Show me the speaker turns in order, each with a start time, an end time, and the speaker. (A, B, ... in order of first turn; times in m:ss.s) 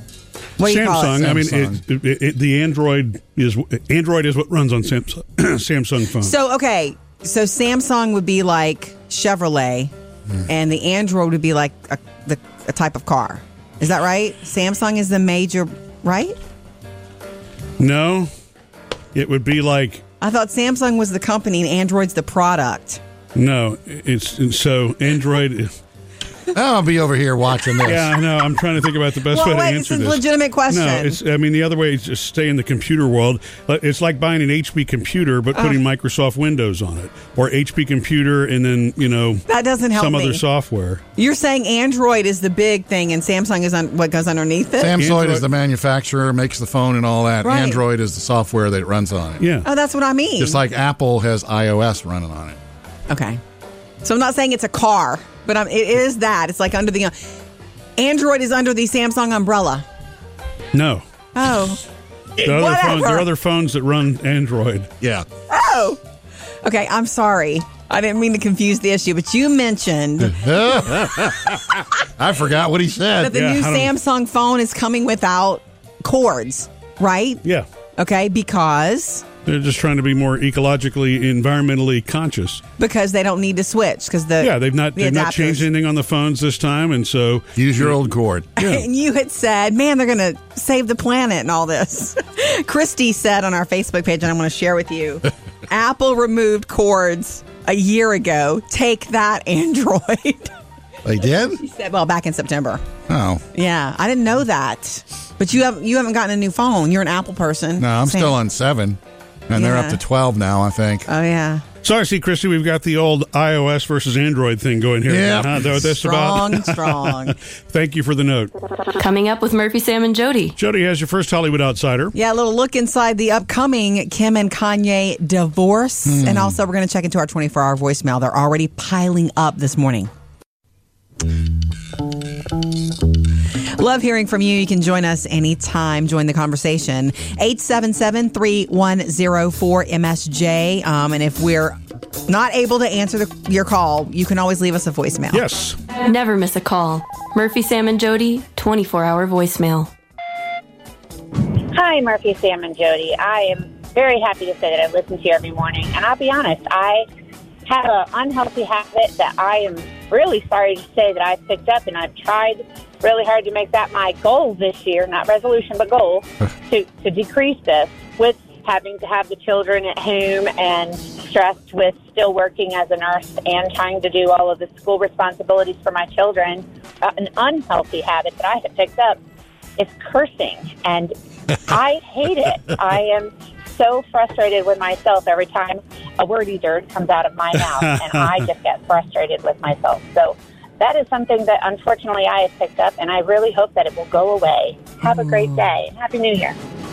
0:00.6-0:01.4 A
0:00.6-0:06.3 B
0:01.2-0:01.8 C
0:06.2-0:09.9 A
0:10.5-0:16.4 A
0:17.8-0:18.3 B
0:19.1-0:20.0 B
0:20.2-0:23.0 A
0:23.4-0:25.8 B
0:26.5-0:28.1 C
0:27.8-0:41.0 B
0:29.3-0:31.2 A
0:35.6-0:35.8 A
0:39.5-0:40.4 A
0:41.2-0:45.0 A
0:44.8-0:49.4 C
0:45.0-0:45.4 B
0:47.4-0:47.8 A
0:49.4-0:49.7 B
0:49.6-0:50.6 A
0:50.4-0:52.6 C
0:53.1-0:53.4 A
0:54.0-0:57.3 A
0:58.0-0:59.8 A
1:00.7-1:01.0 B
1:01.4-1:01.8 A
1:02.4-1:03.3 A
1:02.4-1:04.9 B
1:05.0-1:05.3 C
1:05.5-1:06.0 A
1:06.6-1:10.4 A
1:10.2-1:13.4 C
1:13.2-1:17.4 A
1:13.3-1:13.9 B
1:18.0-1:19.2 A
1:19.4-1:22.6 B
1:22.8-1:25.7 A
1:24.4-1:28.0 B
1:27.6-1:28.6 C
1:28.6-1:40.5 A
1:41.0-1:41.6 C
1:41.6-1:42.8 A
1:43.1-1:43.4 C
1:43.5-1:48.4 A
1:47.8-1:49.0 C
1:49.5-1:51.1 C
1:49.5-1:50.0 A
1:51.1-1:51.6 A
1:51.8-1:58.5 B
1:55.1-1:55.8 C
1:56.0-1:57.4 A
1:59.0-2:00.6 D
2:00.6-2:02.1 B
2:02.1-2:10.1 A
2:06.1-2:06.6 C
2:13.8-2:25.4 A
2:25.3-2:25.8 B
2:25.9-2:29.9 D
2:31.7-2:37.0 E
2:37.7-2:59.2 E
2:59.8-3:16.6 E
3:07.7-3:08.4 B